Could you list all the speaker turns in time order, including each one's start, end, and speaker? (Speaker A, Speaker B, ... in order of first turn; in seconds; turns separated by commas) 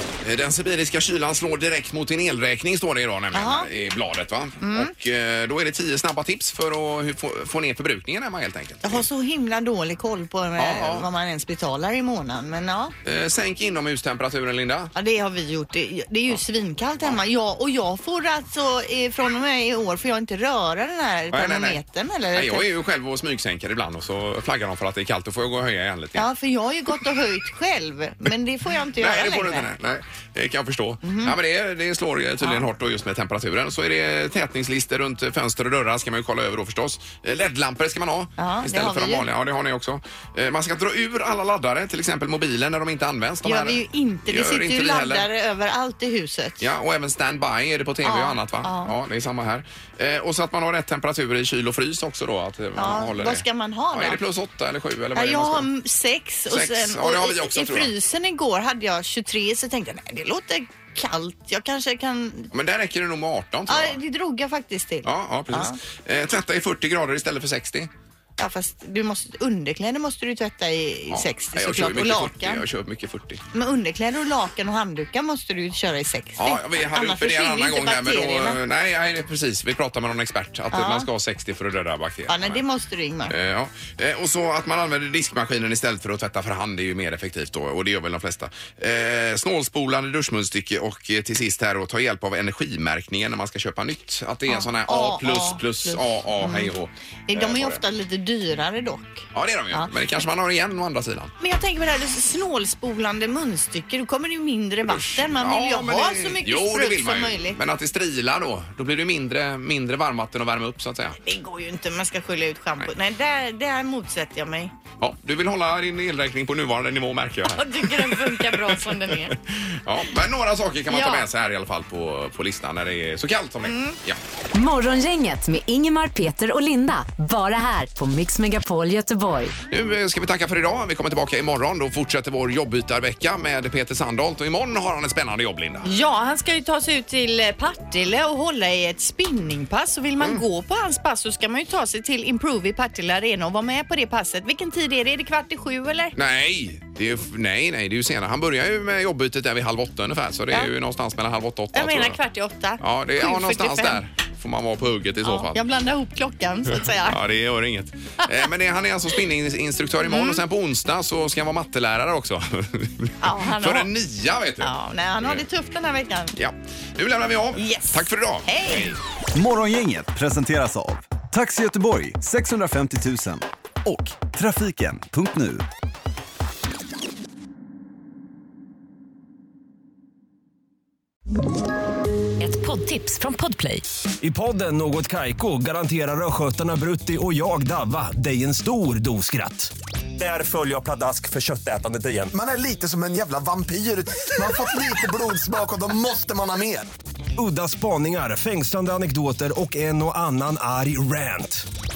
Speaker A: 0.2-9.1, Speaker B: 3.3-3.7, Speaker B: 4.6-4.9, Speaker B: 8.8-12.9, Speaker A: 10.6-11.1, Speaker A: 13.1-14.9, Speaker B: 14.9-22.7, Speaker A: 21.3-21.8, Speaker A: 22.3-26.3, Speaker B: 26.1-29.7, Speaker A: 29.0-45.3, Speaker B: 31.0-31.4, Speaker B: 32.4-32.7, Speaker B: 38.4-39.2, Speaker B: 43.4-46.7, Speaker A: 46.6-55.7, Speaker B: 48.0-48.9, Speaker B: 52.8-54.2, Speaker B: 55.1-62.5, Speaker A: 56.5-57.9, Speaker A: 62.5-64.0, Speaker B: 63.7-65.8, Speaker A: 65.0-67.9, Speaker B: 68.4-72.6, Speaker A: 71.1-73.4, Speaker B: 73.5-78.6, Speaker A: 76.4-82.6, Speaker B: 80.7-81.1, Speaker B: 82.3-83.3, Speaker A: 83.3-97.8, Speaker B: 94.5-96.7, Speaker B: 97.3-99.9, Speaker A: 99.3-101.3, Speaker B: 101.4-107.6, Speaker A: 104.9-111.2, Speaker B: 111.2-114.7, Speaker A: 115.0-124.2, Speaker B: 117.6-119.4, Speaker B: 120.9-121.3, Speaker B: 123.6-124.0, Speaker C: 124.5-129.5, Speaker A: 129.7-135.9, Speaker B: 135.8-146.2, Speaker A: 146.2-152.2, Speaker B: 151.7-154.0, Speaker A: 152.8-155.6, Speaker B: 155.2-157.2, Speaker A: 156.8-165.4, Speaker B: 160.1-160.4, Speaker B: 163.2-163.9, Speaker B: 164.6-166.3, Speaker A: 166.4-169.0, Speaker B: 167.6-169.0, Speaker D: 169.3-175.7, Speaker C: 182.4-183.8, Speaker E: 184.2-192.3, Speaker F: 192.3-196.9, Speaker E: 197.4-201.6